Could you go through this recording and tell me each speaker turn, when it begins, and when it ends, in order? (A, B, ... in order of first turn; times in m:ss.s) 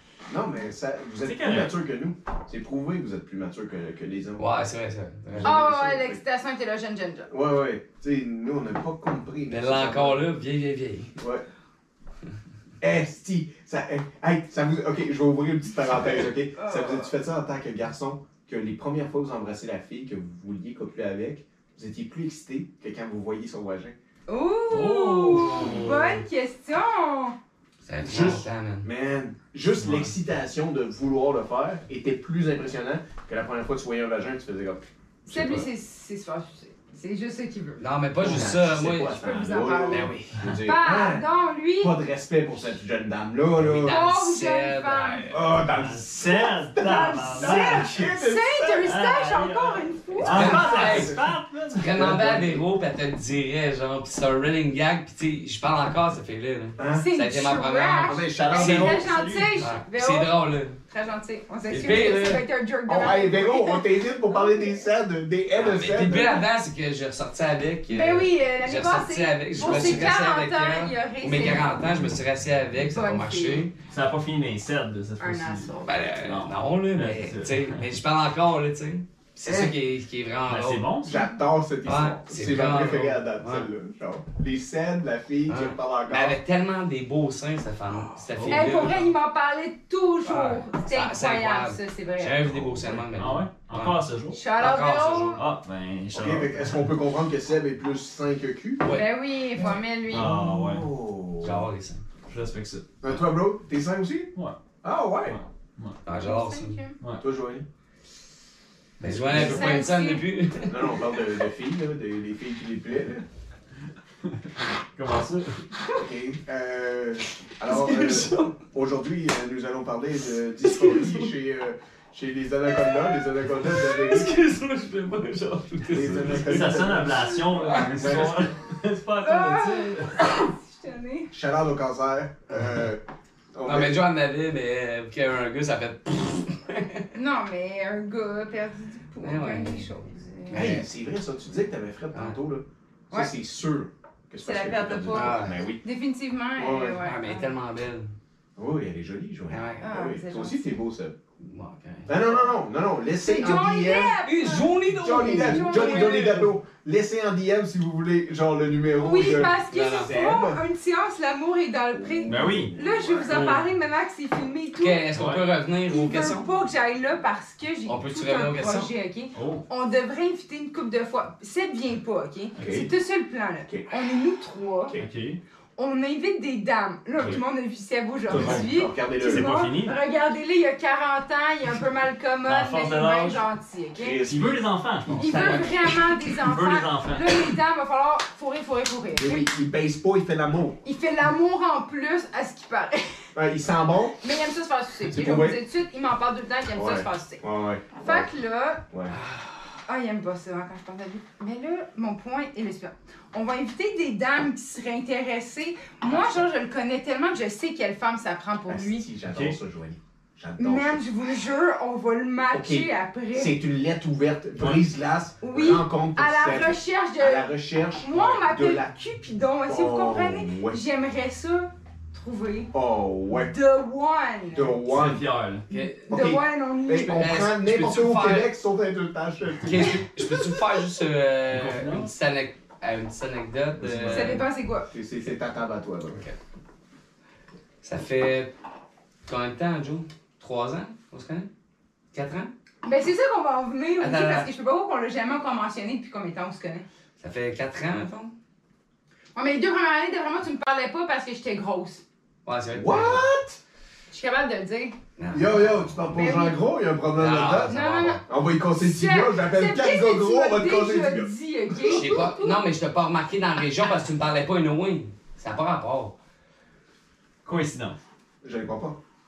0:00.3-0:04.4 A
0:01.2-0:01.7 B
0:04.4-0:05.6 C
0:05.3-0:06.2 A
0:05.4-0:07.3 D
0:07.3-0:10.2 A
0:09.5-0:11.1 C
0:11.2-0:11.4 A
0:12.8-0:23.9 A
0:16.6-0:17.1 D
0:24.3-0:27.4 D
0:24.7-0:26.2 B
0:25.6-0:25.8 A
0:27.8-0:28.9 C
0:28.0-0:35.7 A
0:29.8-0:30.1 B
0:35.2-0:37.8 D
0:37.8-0:39.2 C
0:38.2-0:41.3 A
0:39.1-0:42.0 D
0:39.8-0:40.5 C
0:41.8-0:44.0 A
0:43.5-0:45.6 C
0:43.8-0:45.3 D
0:45.3-0:48.9 A
0:45.7-0:48.0 B
0:46.8-0:50.9 D
0:48.8-0:52.0 B
0:50.2-0:52.6 A
0:50.3-0:51.2 C
0:51.8-1:00.8 C
0:56.8-0:57.1 A
0:56.9-1:04.8 D
0:58.0-0:59.1 A
0:58.9-0:59.7 B
1:01.7-1:02.4 C
1:02.8-1:06.4 A
1:05.5-1:13.7 C
1:07.9-1:12.0 D
1:09.5-1:10.1 A
1:12.9-1:13.7 D
1:13.9-1:17.9 B
1:15.2-1:16.0 D
1:15.8-1:20.9 C
1:19.4-1:19.7 A
1:20.5-1:21.2 B
1:21.0-1:26.4 A
1:21.8-1:23.7 C
1:25.5-1:29.1 C
1:27.9-1:28.2 A
1:28.3-1:28.7 B
1:28.5-1:32.5 D
1:30.2-1:35.4 C
1:32.4-1:33.1 A
1:33.2-1:34.4 B
1:34.3-1:35.4 D
1:35.3-1:36.9 B
1:36.1-1:38.9 A
1:38.8-1:39.1 C
1:38.9-1:40.4 D
1:40.1-1:40.9 B
1:40.1-1:41.7 A
1:41.4-1:42.0 C
1:42.3-1:42.9 B
1:43.0-1:45.4 A
1:45.3-1:46.0 B
1:46.0-1:46.8 C
1:46.1-1:47.0 D
1:47.2-1:47.6 A
1:49.0-1:51.2 C
1:49.1-1:49.8 A
1:49.3-1:49.8 B
1:49.3-1:50.2 D
1:50.7-1:53.2 A
1:54.9-1:55.6 B
1:55.9-2:04.4 A
1:57.6-1:58.6 C
2:00.6-2:01.3 C
2:02.7-2:06.9 C
2:05.9-2:08.5 A
2:06.2-2:10.2 B
2:07.6-2:08.4 C
2:09.2-2:11.3 D
2:11.3-2:13.0 A
2:13.5-2:14.0 A
2:13.6-2:17.1 C
2:17.1-2:20.8 D
2:19.2-2:19.9 C
2:20.5-2:20.8 C
2:20.5-2:25.8 A
2:24.4-2:27.5 D
2:25.1-2:25.6 C
2:26.6-2:27.0 A
2:27.0-2:28.1 C
2:28.6-2:31.1 A
2:29.5-2:29.8 C
2:29.8-2:30.8 D
2:31.4-2:32.3 C
2:32.0-2:34.2 A
2:33.2-2:36.4 D
2:33.4-2:33.7 C
2:34.2-2:36.5 C
2:34.9-2:40.6 A
2:39.0-2:45.0 D
2:39.2-2:40.1 C
2:41.9-2:43.5 A
2:42.3-2:42.7 B
2:43.3-2:43.6 C
2:44.8-2:46.5 C
2:45.1-2:45.4 B
2:45.9-2:55.0 D
2:47.8-2:48.9 C
2:49.3-2:49.6 B
2:52.6-2:52.9 A
2:55.0-2:55.4 B
2:55.8-3:04.3 D
2:58.3-2:59.6 A
2:58.3-2:58.7 B
2:59.2-3:00.0 B
3:02.4-3:03.4 B
3:04.0-3:05.6 A
3:04.2-3:07.6 B
3:05.2-3:09.4 D
3:09.2-3:10.8 A
3:10.8-3:13.2 D
3:13.3-3:14.2 A
3:14.2-3:17.4 D
3:15.1-3:15.6 A
3:16.7-3:18.3 A
3:18.0-3:18.9 D
3:18.9-3:19.2 A
3:19.1-3:19.4 C
3:19.9-3:29.0 D
3:28.7-3:31.1 A
3:29.3-3:29.6 B
3:30.6-3:33.6 D
3:32.5-3:38.9 A
3:34.6-3:34.8 B
3:35.4-3:42.7 D
3:39.6-3:40.8 A
3:42.7-3:43.5 A
3:43.4-3:44.8 D
3:44.5-3:45.2 A
3:44.9-3:45.6 B
3:45.7-3:46.0 C
3:45.7-3:47.4 D
3:46.1-3:50.8 A
3:47.1-3:48.5 C
3:49.6-3:54.4 C
3:51.5-3:52.1 B
3:53.8-3:56.2 A
3:54.1-3:54.9 D
3:57.8-3:58.5 C
3:59.2-4:01.5 C
4:02.1-4:02.5 C
4:02.8-4:06.8 D
4:04.0-4:04.5 C
4:07.2-4:08.3 C
4:09.3-4:12.0 D
4:12.4-4:13.2 C
4:12.7-4:13.6 A
4:14.1-4:15.0 D
4:15.2-4:16.3 C
4:15.3-4:22.2 A
4:16.1-4:16.6 D
4:17.1-4:18.2 C
4:17.6-4:22.6 D
4:21.9-4:26.1 C
4:27.4-4:28.0 B
4:28.4-4:29.0 A